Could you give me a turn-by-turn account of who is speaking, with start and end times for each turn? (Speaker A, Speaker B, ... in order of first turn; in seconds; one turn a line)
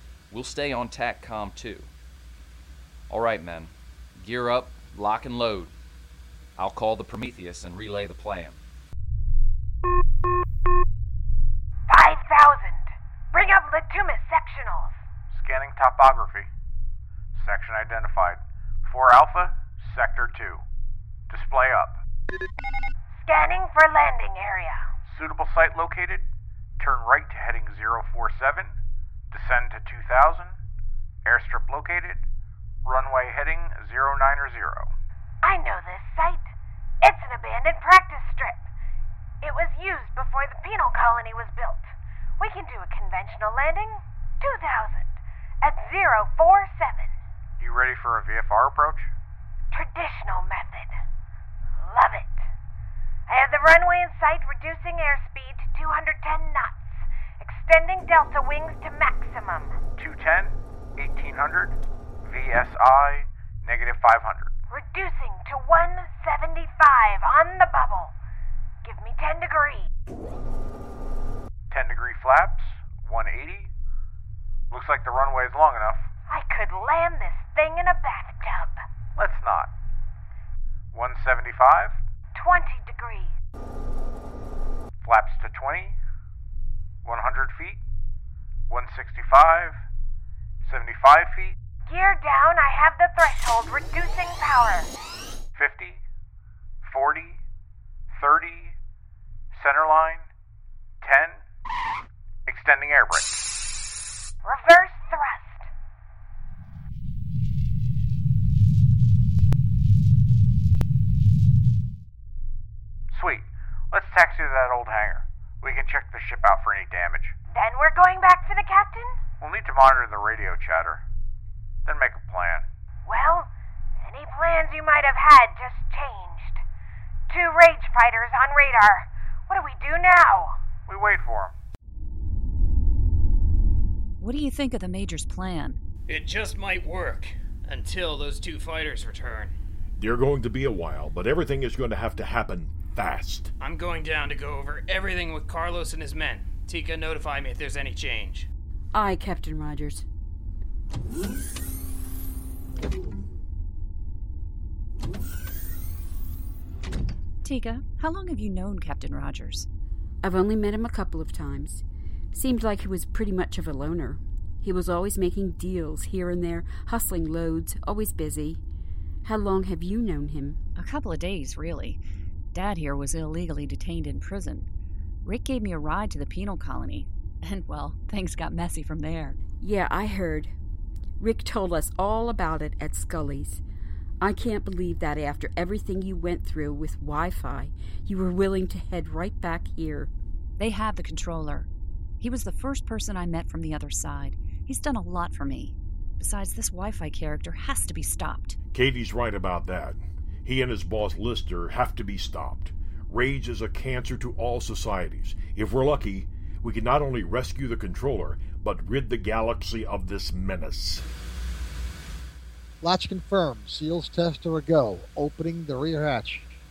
Speaker A: 0.3-1.9
Speaker A: 3.1-5.7
Speaker A: 6.6-8.6
Speaker B: 11.9-15.0
Speaker C: 15.3-16.5
Speaker C: 17.4-20.6
Speaker C: 21.3-22.0
Speaker B: 23.2-24.8
Speaker C: 25.1-26.2
Speaker C: 26.8-28.8
Speaker C: 29.3-30.6
Speaker C: 31.2-32.2
Speaker C: 32.9-34.9
Speaker B: 35.4-38.6
Speaker B: 39.4-47.1
Speaker C: 47.6-49.1
Speaker B: 49.7-51.0
Speaker B: 51.8-52.5
Speaker B: 53.3-59.8
Speaker C: 60.0-64.5
Speaker B: 64.7-68.1
Speaker B: 68.8-69.9
Speaker C: 71.7-73.7
Speaker C: 74.7-76.1
Speaker B: 76.3-78.8
Speaker C: 79.2-79.7
Speaker C: 80.9-82.0
Speaker B: 82.3-83.3
Speaker C: 85.0-86.0
Speaker C: 87.0-87.8
Speaker C: 88.7-89.8
Speaker C: 90.6-91.6
Speaker B: 91.9-94.9
Speaker C: 95.6-96.0
Speaker C: 96.8-97.4
Speaker C: 98.1-98.8
Speaker C: 99.5-100.3
Speaker C: 101.0-101.4
Speaker C: 102.5-103.4
Speaker B: 104.4-105.7
Speaker C: 113.1-117.4
Speaker B: 117.5-119.2
Speaker C: 119.4-121.0
Speaker C: 121.8-122.7
Speaker B: 123.0-126.6
Speaker B: 127.3-130.6
Speaker C: 130.9-131.5
Speaker D: 134.2-135.8
Speaker E: 136.1-139.5
Speaker F: 140.0-143.5
Speaker E: 143.6-148.5
Speaker G: 148.9-150.1
Speaker D: 157.4-159.7
Speaker G: 160.2-168.6
Speaker G: 169.2-170.6
Speaker D: 170.8-172.0
Speaker D: 172.5-174.7
Speaker D: 175.2-179.4
Speaker G: 179.6-180.5
Speaker G: 181.2-183.6
Speaker G: 184.2-190.1
Speaker D: 190.6-191.7
Speaker D: 192.2-198.6
Speaker F: 198.7-211.1
Speaker H: 212.8-216.5